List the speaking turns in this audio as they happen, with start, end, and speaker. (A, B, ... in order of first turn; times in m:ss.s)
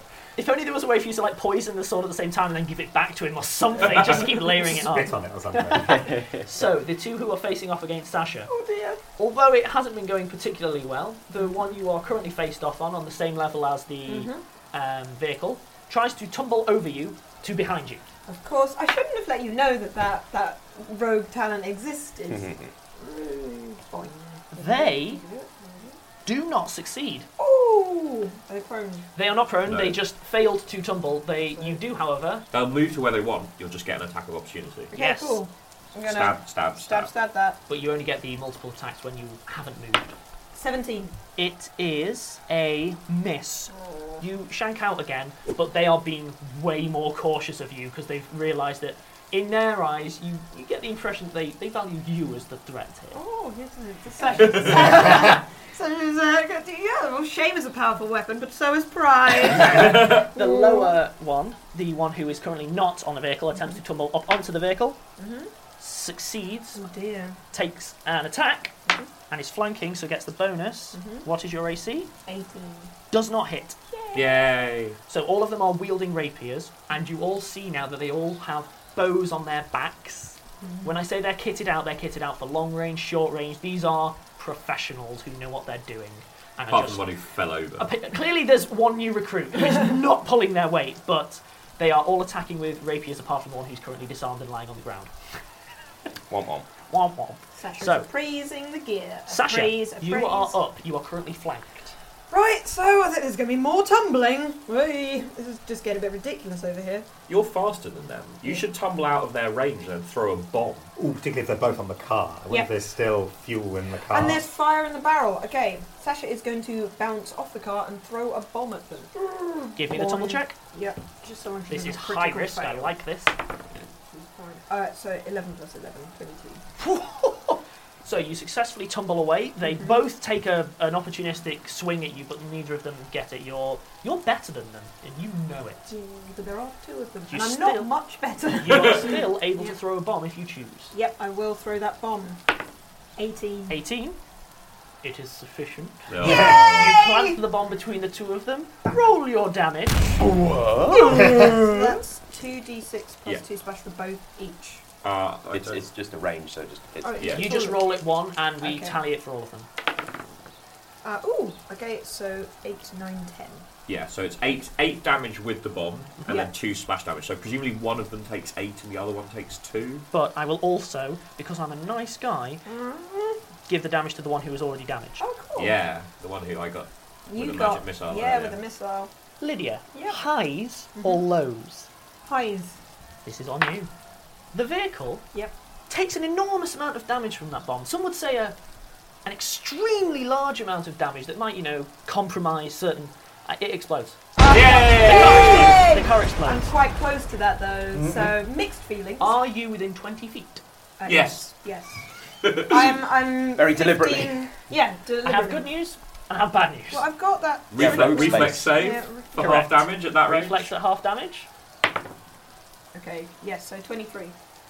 0:00.4-0:08.5 A
0:03.8-0:04.2 B
0:04.5-0:06.0 C
0:05.8-0:06.5 D
0:08.5-0:09.0 E
0:09.2-0:18.0 A
0:11.4-0:11.7 E
0:14.1-0:14.4 E
0:18.3-0:26.0 E
0:22.3-0:22.7 D
0:24.5-0:25.2 A
0:26.3-0:27.3 A
0:27.4-0:29.1 E
0:29.1-0:32.5 A
0:29.7-0:30.0 B
0:31.4-0:31.8 E
0:32.5-0:34.9 B
0:34.9-0:37.6 E
0:34.9-0:35.4 A
0:36.1-0:37.1 B
0:37.7-0:40.1 A
0:40.5-0:41.2 E
0:41.4-0:53.2 A
0:43.7-0:44.2 E
0:53.1-1:01.0 E
0:54.2-0:55.1 A
0:59.8-1:05.0 A
0:59.8-1:00.2 B
1:05.2-1:05.5 E
1:05.8-1:06.9 A
1:06.8-1:07.4 E
1:07.5-1:12.1 A
1:11.0-1:11.3 E
1:12.3-1:12.9 E
1:13.1-1:13.8 A
1:13.9-1:14.4 E
1:14.1-1:15.0 B
1:15.1-1:27.1 A
1:20.6-1:21.0 E
1:26.7-1:27.9 B
1:27.8-1:35.1 A
1:36.3-1:36.7 D
1:36.9-1:38.1 A
1:37.6-1:40.6 E
1:39.3-1:42.0 A
1:42.3-1:47.1 E
1:47.3-1:50.9 B
1:51.0-1:54.4 C
1:54.1-2:03.0 E
1:59.8-2:00.6 A
2:01.7-2:03.4 A
2:04.1-2:06.6 E
2:06.8-2:15.9 A
2:09.6-2:10.0 E
2:15.9-2:19.8 E
2:17.3-2:17.9 A
2:18.6-2:20.9 A
2:18.7-2:19.1 B
2:20.9-2:22.4 E
2:23.2-2:23.8 E
2:23.7-2:24.2 A
2:25.0-2:30.2 A
2:26.1-2:27.0 B
2:26.2-2:26.9 C
2:26.8-2:27.4 E
2:30.3-2:31.4 D
2:30.9-2:34.8 E
2:31.1-2:31.5 C
2:35.0-2:35.8 B
2:35.5-2:37.4 D
2:37.0-2:37.9 E
2:37.2-2:37.5 B
2:37.2-2:39.7 A
2:38.6-2:39.0 E
2:41.0-2:43.6 E
2:43.9-2:50.1 B
2:46.3-2:46.5 E
2:50.1-2:52.6 A
2:52.7-2:53.4 E
2:53.7-2:55.2 A
2:55.2-2:55.8 E
2:55.6-2:58.6 B
2:57.3-2:59.1 E
2:59.4-3:01.9 A
2:59.9-3:00.2 E
3:01.0-3:01.2 E
3:02.2-3:02.8 E
3:03.2-3:03.9 A
3:04.5-3:05.3 A
3:05.9-3:08.6 A
3:09.2-3:16.7 A
3:14.4-3:19.4 E
3:14.5-3:15.8 B
3:19.2-3:20.6 A
3:21.0-3:22.0 E
3:21.1-3:21.5 B
3:22.4-3:23.0 B
3:22.6-3:25.7 E
3:23.5-3:24.5 D
3:25.2-3:27.1 A
3:26.9-3:29.6 E
3:27.7-3:28.7 D
3:27.7-3:30.7 B
3:29.4-3:31.5 A
3:32.9-3:34.4 E